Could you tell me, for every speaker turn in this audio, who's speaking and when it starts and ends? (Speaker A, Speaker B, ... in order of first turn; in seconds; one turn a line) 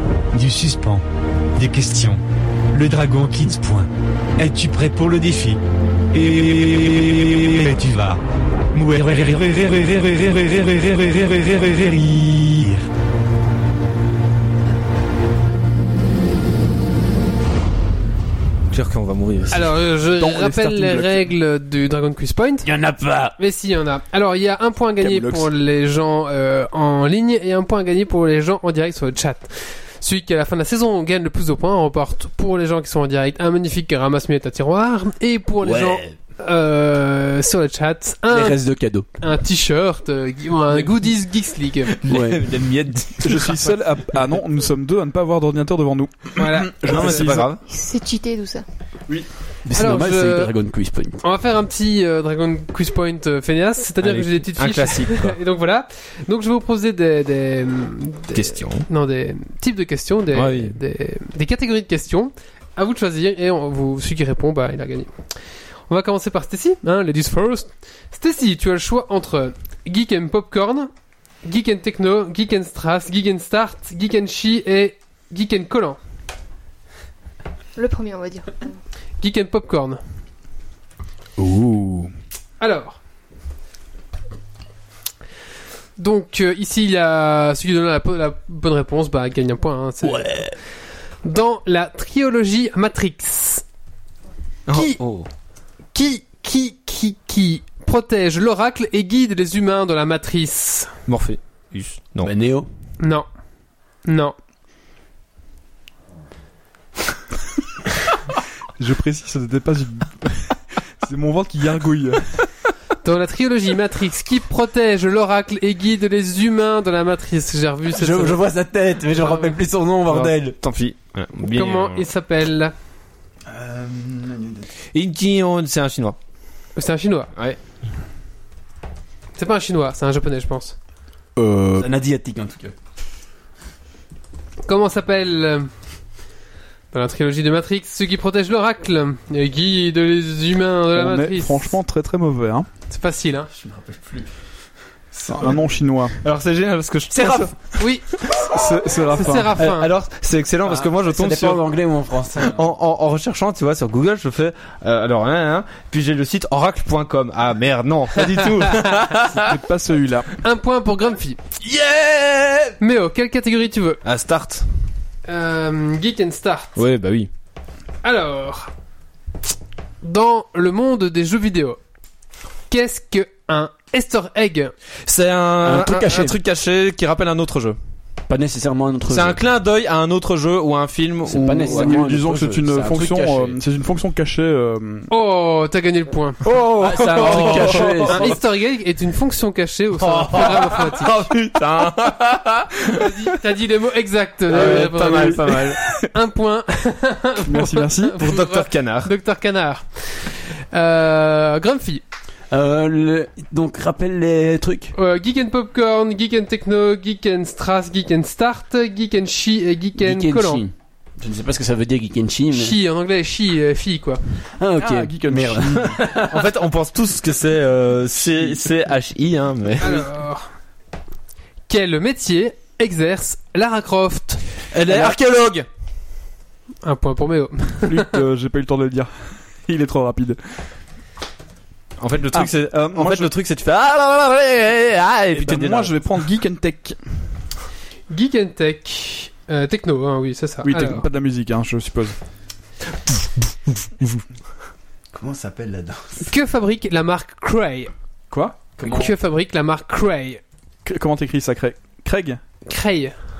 Speaker A: 0.3-1.0
Speaker A: 1.5-5.6
Speaker A: 6.1-8.2
Speaker A: 8.7-12.8
Speaker B: 18.7-19.7
Speaker C: 19.5-22.7
Speaker D: 20.1-21.3
Speaker E: 22.6-23.3
Speaker C: 23.4-38.6
Speaker E: 25.1-25.4
Speaker E: 35.6-36.1
Speaker E: 38.3-39.1
Speaker C: 39.2-42.0
Speaker B: 42.0-43.5
Speaker E: 42.0-42.6
Speaker D: 43.2-47.4
Speaker C: 46.4-47.4
Speaker B: 46.8-47.6
Speaker F: 47.7-48.6
Speaker E: 49.6-51.2
Speaker C: 49.8-50.5
Speaker C: 51.2-65.1
Speaker B: 54.0-55.4
Speaker B: 58.3-58.9
Speaker B: 60.3-60.8
Speaker C: 65.9-70.9
Speaker C: 71.4-76.0
Speaker F: 77.8-78.7
Speaker C: 79.2-80.0
Speaker D: 81.4-82.1
Speaker C: 82.6-83.0
Speaker C: 86.0-90.5
Speaker E: 90.0-90.5
Speaker C: 91.2-93.6
Speaker B: 94.7-95.3
Speaker C: 94.7-95.0
Speaker C: 95.9-100.9
Speaker B: 101.1-102.3
Speaker E: 102.2-102.7
Speaker C: 104.0-104.3
Speaker D: 108.8-112.5
Speaker C: 113.0-118.4
Speaker E: 117.9-120.6
Speaker C: 119.1-119.5
Speaker B: 120.1-122.1
Speaker C: 121.5-122.7
Speaker E: 123.5-124.6
Speaker B: 124.9-126.2
Speaker C: 126.8-127.3
Speaker C: 129.3-130.8
Speaker E: 131.4-132.7
Speaker D: 131.4-131.8
Speaker C: 134.7-135.7
Speaker C: 136.9-141.7
Speaker D: 140.9-142.7
Speaker C: 142.9-143.5
Speaker E: 143.5-144.3
Speaker D: 145.2-146.2
Speaker B: 146.2-147.5
Speaker C: 147.8-148.1
Speaker D: 148.4-149.6
Speaker C: 149.1-149.9
Speaker B: 149.6-151.7
Speaker E: 150.6-152.6
Speaker B: 152.4-159.6
Speaker C: 158.2-158.7
Speaker D: 159.3-160.3
Speaker C: 160.4-161.4
Speaker E: 161.6-162.7
Speaker C: 162.8-164.0
Speaker B: 164.0-164.7
Speaker C: 165.3-166.8
Speaker B: 166.8-167.3
Speaker C: 168.0-168.7
Speaker C: 170.0-171.8
Speaker C: 172.7-174.7
Speaker B: 175.1-177.8
Speaker E: 175.6-176.4
Speaker E: 178.3-179.4
Speaker B: 179.1-182.0
Speaker E: 181.3-183.6
Speaker D: 181.6-185.1
Speaker C: 185.1-186.4
Speaker E: 186.4-188.4
Speaker D: 186.5-187.8
Speaker B: 186.9-188.3
Speaker C: 187.2-191.1
Speaker B: 189.9-193.1
Speaker C: 192.9-195.6
Speaker B: 194.5-195.8
Speaker E: 194.6-195.3
Speaker C: 196.1-202.0
Speaker D: 197.4-198.2
Speaker B: 198.2-199.1
Speaker E: 202.5-204.9
Speaker C: 204.9-210.6
Speaker E: 210.0-212.8
Speaker C: 212.5-214.2
Speaker E: 214.6-216.5
Speaker D: 214.8-216.1
Speaker B: 216.2-220.1
Speaker C: 219.8-220.4
Speaker C: 221.7-224.4
Speaker B: 224.7-225.7
Speaker C: 226.8-228.2
Speaker D: 227.8-229.1
Speaker D: 229.6-230.4
Speaker B: 232.0-236.0
Speaker D: 232.3-233.3
Speaker D: 235.3-237.0
Speaker C: 238.1-241.1
Speaker D: 240.6-242.2
Speaker E: 245.1-246.2
Speaker C: 246.2-247.9
Speaker D: 248.3-248.6
Speaker E: 248.8-249.1
Speaker C: 248.8-250.4
Speaker D: 250.8-252.4
Speaker C: 252.7-253.1